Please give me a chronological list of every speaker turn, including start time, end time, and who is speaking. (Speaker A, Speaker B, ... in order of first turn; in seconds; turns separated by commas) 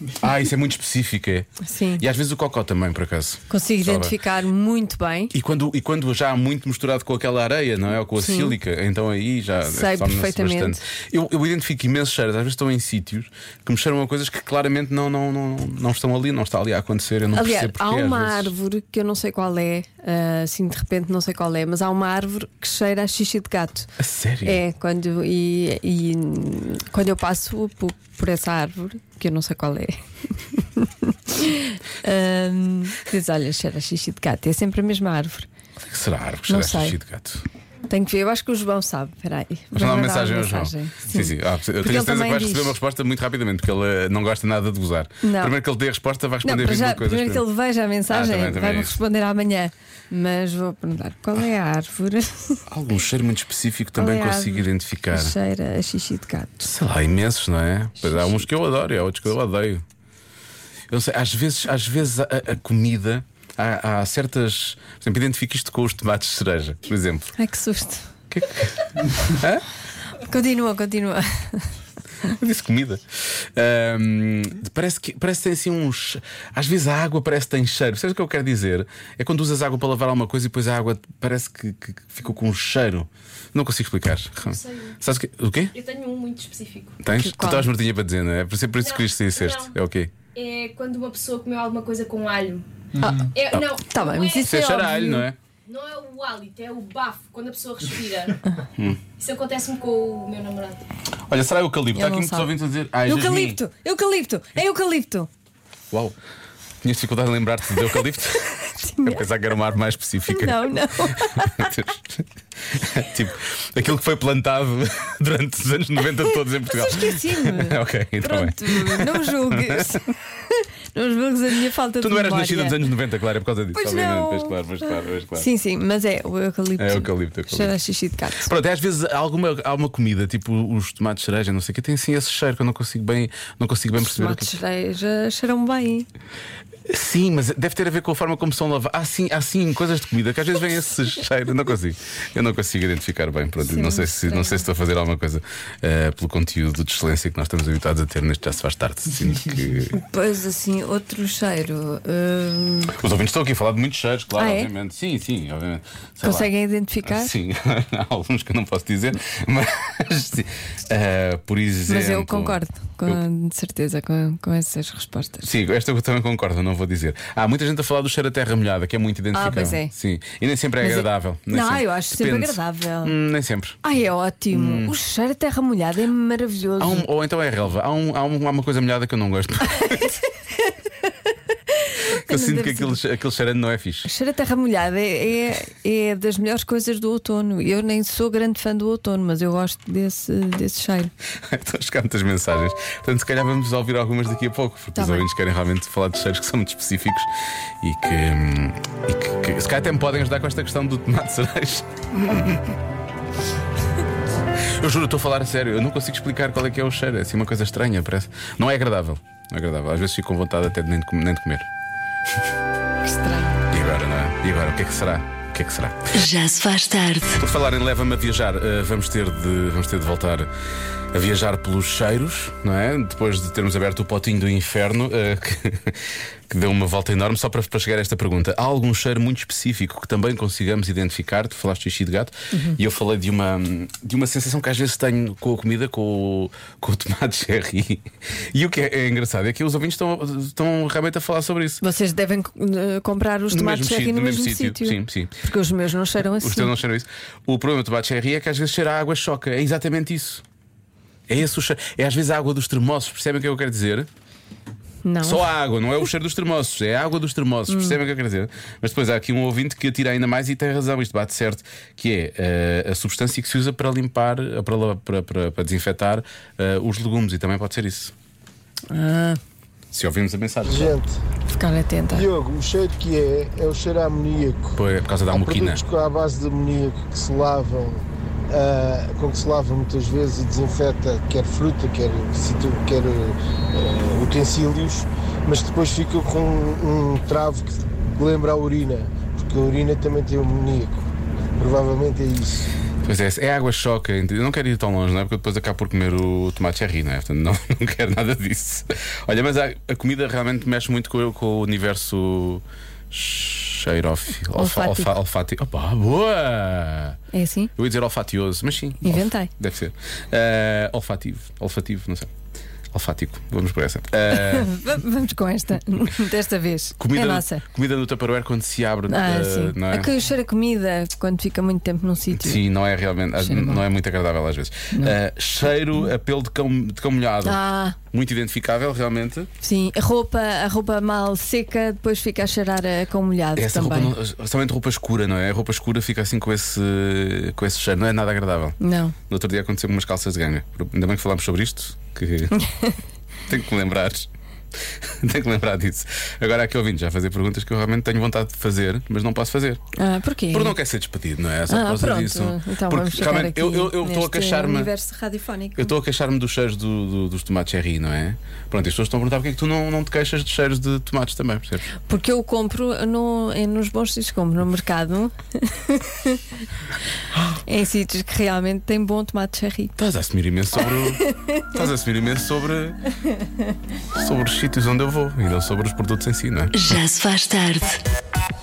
Speaker A: 0.2-4.2, Speaker B: 1.6-2.0, Speaker B: 3.5-5.3, Speaker A: 5.3-18.5, Speaker B: 8.2-8.6, Speaker B: 9.6-10.8, Speaker B: 17.3-23.9, Speaker A: 24.0-24.6, Speaker B: 24.4-30.0, Speaker B: 30.5-35.5, Speaker A: 35.8-37.4, Speaker B: 36.5-37.0, Speaker B: 37.9-42.8, Speaker A: 39.7-47.5, Speaker B: 45.2-45.5, Speaker B: 46.4-52.6, Speaker A: 48.1-49.0, Speaker A: 52.7-55.3, Speaker B: 54.0-56.7, Speaker A: 56.6-59.8, Speaker B: 58.0-58.4, Speaker A: 60.9-67.3, Speaker B: 67.4-68.1, Speaker A: 68.3-69.6, Speaker B: 70.2-71.7, Speaker A: 72.3-85.7, Speaker C: 84.4-85.0, Speaker C: 85.7-87.0, Speaker A: 87.0-90.1, Speaker B: 87.1-87.7, Speaker C: 88.8-89.7, Speaker C: 90.3-92.7, Speaker B: 93.0-93.3, Speaker C: 93.3-94.6, Speaker B: 93.8-95.2, Speaker A: 94.4-95.4, Speaker C: 95.7-98.4, Speaker C: 99.2-100.8, Speaker A: 101.3-103.6, Speaker B: 101.9-102.5, Speaker B: 103.0-105.3, Speaker A: 105.9-106.2, Speaker A: 106.8-110.7, Speaker B: 108.7-109.2, Speaker B: 110.3-111.8, Speaker A: 111.2-120.0, Speaker B: 116.6-122.8, Speaker A: 122.0-125.5, Speaker B: 123.7-124.5, Speaker B: 125.3-128.5, Speaker A: 126.8-127.7, Speaker A: 128.4-134.6, Speaker B: 134.0-136.1, Speaker A: 136.9-150.0, Speaker B: 143.6-144.7, Speaker B: 149.9-152.9, Speaker A: 152.9-156.5, Speaker B: 154.3-154.7, Speaker B: 156.2-157.3, Speaker A: 157.0-163.2, Speaker B: 161.9-165.5, Speaker A: 165.4-173.8, Speaker B: 169.3-169.9, Speaker B: 170.8-173.1, Speaker B: 173.8-177.1, Speaker A: 174.5-174.9, Speaker A: 176.8-180.1, Speaker B: 181.7-183.0, Speaker A: 182.3-184.1, Speaker B: 184.0-191.1, Speaker A: 191.4-202.7, Speaker B: 194.9-195.2, Speaker A: 204.6-211.7, Speaker B: 213.0-213.6, Speaker A: 213.7-216.1, Speaker D: 216.1-217.4, Speaker A: 217.4-220.5, Speaker A: 221.1-241.8, Speaker B: 232.5-232.8, Speaker B: 241.8-246.7, Speaker A: 243.5-245.4, Speaker A: 246.3-250.4, Speaker A: 251.3-254.1, Speaker B: 255.0-255.4, Speaker A: 255.2-268.1, Speaker B: 257.7-258.0, Speaker B: 268.9-269.4, Speaker A: 269.9-270.9, Speaker E: 270.6-271.1, Speaker B: 271.5-272.3, Speaker E: 272.1-274.8, Speaker A: 274.8-275.8, Speaker E: 275.3-292.7, Speaker A: 293.0-307.2, Speaker B: 304.5-305.1, Speaker B: 307.3-307.7, Speaker A: 307.8-312.3, Speaker B: 309.0-309.5, Speaker A: 312.9-314.7, Speaker B: 314.3-317.6, Speaker A: 317.0-320.1, Speaker B: 319.1-322.6, Speaker A: 322.3-329.5, Speaker B: 323.4-323.8, Speaker B: 327.4-328.0, Speaker B: 329.6-334.1, Speaker A: 333.5-338.8, Speaker B: 338.8-339.1, Speaker A: 339.3-342.6, Speaker B: 342.5-343.0, Speaker A: 343.5-344.3, Speaker A: 345.0-349.8, Speaker B: 349.9-350.8, Speaker A: 350.5-354.9, Speaker B: 351.7-355.9, Speaker A: 355.8-361.9, Speaker B: 362.0-366.4, Speaker B: 367.6-369.9, Speaker A: 370.0-373.0, Speaker B: 371.2-371.8, Speaker A: 374.1-376.8, Speaker D: 376.7-378.0